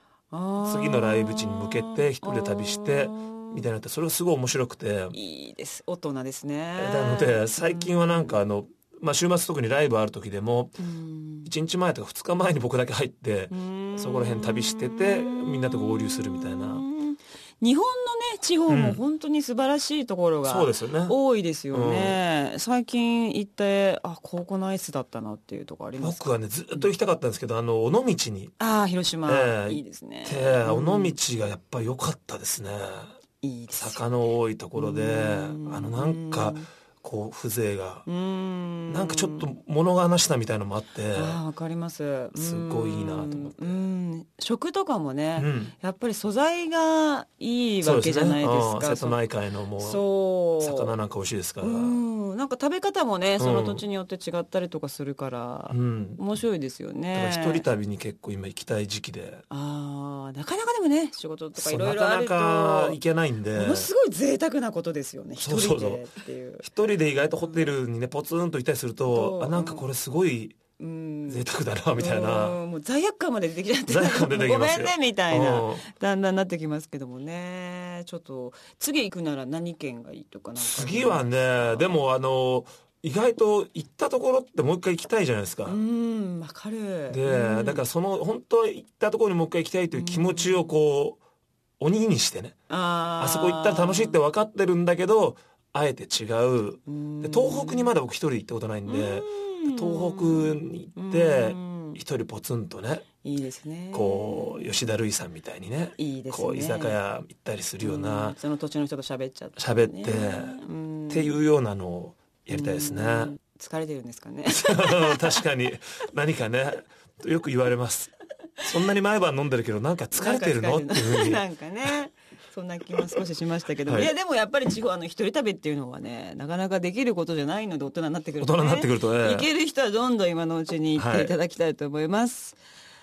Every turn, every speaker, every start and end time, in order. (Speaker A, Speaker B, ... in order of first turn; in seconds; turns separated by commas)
Speaker A: 0.3-3.6, Speaker B: 0.6-5.2, Speaker A: 5.1-8.3, Speaker B: 6.8-10.8, Speaker A: 10.8-11.5, Speaker B: 11.4-16.8, Speaker A: 13.5-26.9, Speaker B: 18.7-19.0, Speaker B: 20.4-21.1, Speaker B: 21.7-22.2, Speaker B: 26.0-28.5, Speaker A: 28.6-31.2, Speaker B: 29.2-33.1, Speaker A: 33.4-34.0, Speaker B: 33.7-38.1, Speaker A: 34.7-36.7, Speaker A: 38.0-39.5, Speaker B: 38.9-41.4, Speaker A: 41.1-49.2, Speaker B: 42.3-43.9, Speaker B: 45.4-45.7, Speaker B: 47.8-50.0, Speaker A: 49.8-50.9, Speaker B: 50.6-52.0, Speaker A: 51.6-57.6, Speaker B: 53.4-53.8, Speaker B: 55.7-56.2, Speaker B: 57.1-59.4, Speaker A: 59.5-63.0, Speaker B: 61.5-63.9, Speaker A: 63.5-66.7, Speaker B: 65.4-66.0, Speaker B: 66.6-70.6, Speaker A: 67.4-67.7, Speaker A: 69.1-69.8, Speaker A: 70.8-82.0, Speaker B: 71.3-72.6, Speaker B: 73.9-75.8, Speaker B: 80.6-85.8, Speaker A: 85.7-87.8, Speaker B: 87.1-91.2, Speaker A: 89.9-90.8, Speaker B: 91.8-92.6, Speaker A: 92.7-94.2, Speaker B: 93.2-103.0, Speaker A: 96.9-97.9, Speaker A: 98.9-102.0, Speaker A: 103.2-104.7, Speaker B: 103.9-108.3, Speaker A: 106.0-107.0, Speaker A: 107.8-111.4, Speaker B: 109.6-110.6, Speaker B: 111.1-113.3, Speaker A: 112.5-115.4, Speaker B: 114.5-121.4, Speaker A: 120.1-132.6, Speaker B: 128.4-129.5, Speaker B: 130.9-131.3